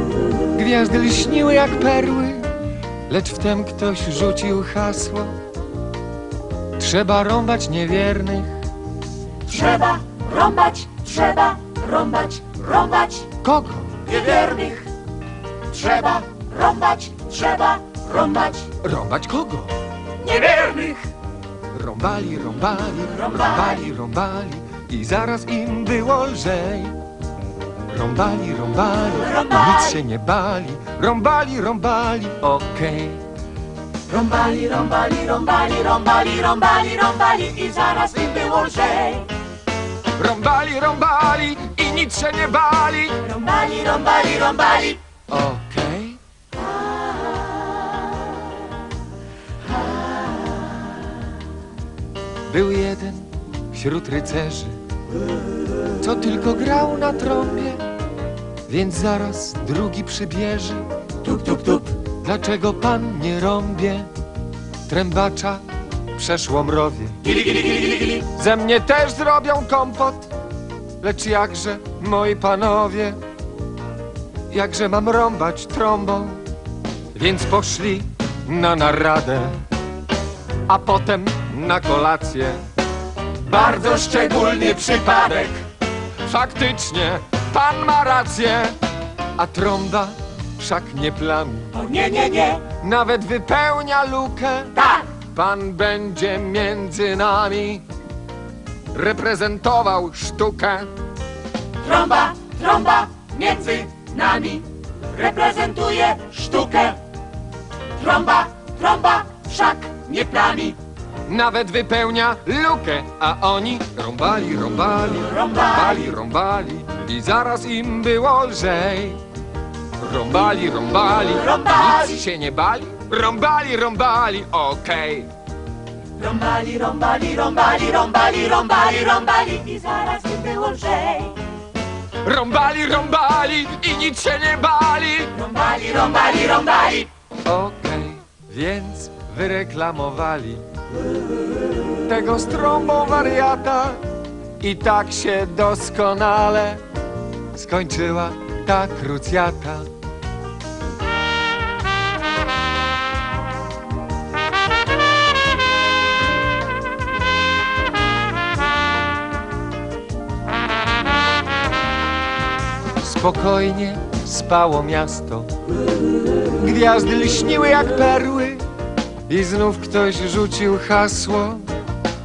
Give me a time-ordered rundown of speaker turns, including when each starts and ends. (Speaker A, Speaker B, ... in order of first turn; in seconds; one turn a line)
Speaker A: 0.5-2.5
Speaker A: 3.1-5.4
Speaker A: 6.8-8.7
Speaker B: 9.4-13.3
Speaker A: 13.4-14.1
Speaker B: 14.1-14.9
Speaker B: 15.7-18.7
Speaker A: 18.8-19.8
Speaker B: 20.2-21.1
Speaker A: 21.7-27.0
Speaker B: 23.3-23.7
Speaker A: 27.9-33.2
Speaker B: 29.2-29.9
Speaker B: 34.1-39.3
Speaker A: 40.1-43.2
Speaker B: 43.2-45.0
Speaker A: 45.3-46.2
Speaker A: 52.5-54.8
Speaker A: 56.0-57.9
Speaker A: 58.7-60.9
Speaker B: 61.2-62.0
Speaker A: 62.0-64.1
Speaker A: 64.8-67.4
Speaker B: 67.3-68.2
Speaker A: 68.1-70.3
Speaker A: 71.0-73.2
Speaker A: 74.5-76.5
Speaker A: 77.1-79.6
Speaker A: 80.7-82.7
Speaker A: 83.4-85.7
Speaker B: 83.7-84.8
Speaker A: 86.2-88.8
Speaker A: 89.4-91.8
Speaker B: 91.8-92.7
Speaker A: 92.6-97.8
Speaker B: 94.8-95.1
Speaker A: 98.9-100.9
Speaker B: 101.8-107.0
Speaker B: 108.0-110.8
Speaker A: 111.3-119.2
Speaker B: 115.3-115.9
Speaker A: 120.0-125.3
Speaker B: 121.4-122.1
Speaker B: 126.2-131.4
Speaker A: 132.2-135.4
Speaker B: 135.4-137.1
Speaker A: 137.4-140.7
Speaker A: 142.0-144.1
Speaker A: 144.6-146.8
Speaker A: 147.5-149.9
Speaker A: 163.0-165.6
Speaker A: 166.5-168.7
Speaker A: 169.3-171.7